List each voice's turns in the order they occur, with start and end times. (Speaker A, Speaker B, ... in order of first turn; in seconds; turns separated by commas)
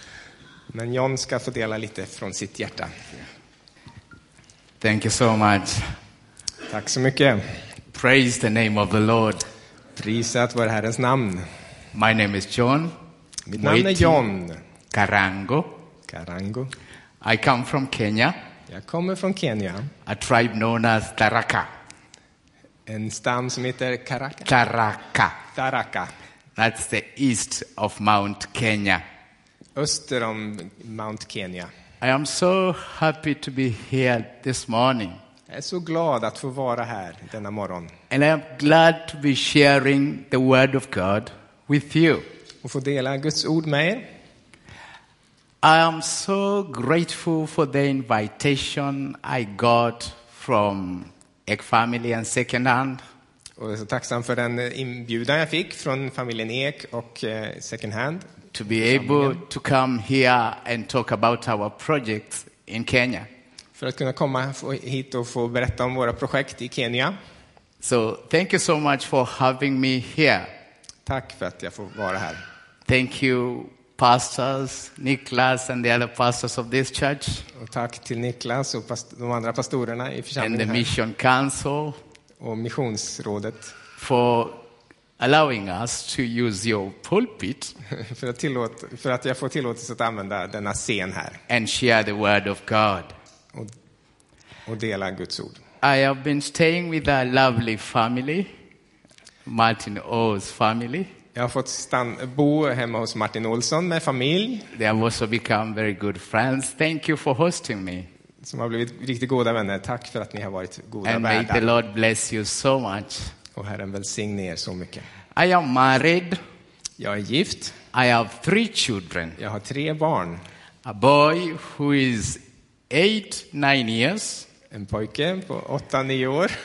Speaker A: 0.7-3.0, Speaker B: 4.8-5.9, Speaker A: 6.7-7.6, Speaker B: 7.9-9.4, Speaker A: 9.9-11.5, Speaker B: 11.9-12.9, Speaker A: 13.5-14.6, Speaker B: 13.6-14.2, Speaker B: 14.9-15.7, Speaker A: 16.1-16.7, Speaker B: 17.2-18.4, Speaker A: 18.7-19.9, Speaker B: 20.1-21.7, Speaker A: 22.9-24.5, Speaker B: 24.5-25.4, Speaker A: 25.6-26.1, Speaker B: 26.6-29.0, Speaker A: 29.8-31.7, Speaker B: 32.0-35.2, Speaker A: 35.5-37.9, Speaker B: 38.1-42.2, Speaker A: 42.6-44.1, Speaker B: 45.6-53.0, Speaker A: 53.6-59.4, Speaker B: 58.5-63.3, Speaker A: 63.8-67.2, Speaker B: 67.8-70.5, Speaker A: 71.1-72.4, Speaker B: 72.9-77.5, Speaker A: 77.5-80.9, Speaker B: 80.4-82.0, Speaker A: 82.4-83.7, Speaker B: 84.0-84.6, Speaker B: 85.2-87.8, Speaker A: 87.9-91.4, Speaker B: 91.5-93.1, Speaker A: 94.7-95.6, Speaker B: 95.8-98.5, Speaker B: 99.5-101.1, Speaker A: 101.3-104.7, Speaker B: 104.7-108.1, Speaker A: 108.4-111.8, Speaker B: 111.0-113.3, Speaker A: 113.6-115.1, Speaker B: 115.3-116.4, Speaker A: 117.0-117.8, Speaker B: 117.9-119.4, Speaker A: 119.4-120.4, Speaker B: 120.8-124.5, Speaker A: 124.7-126.5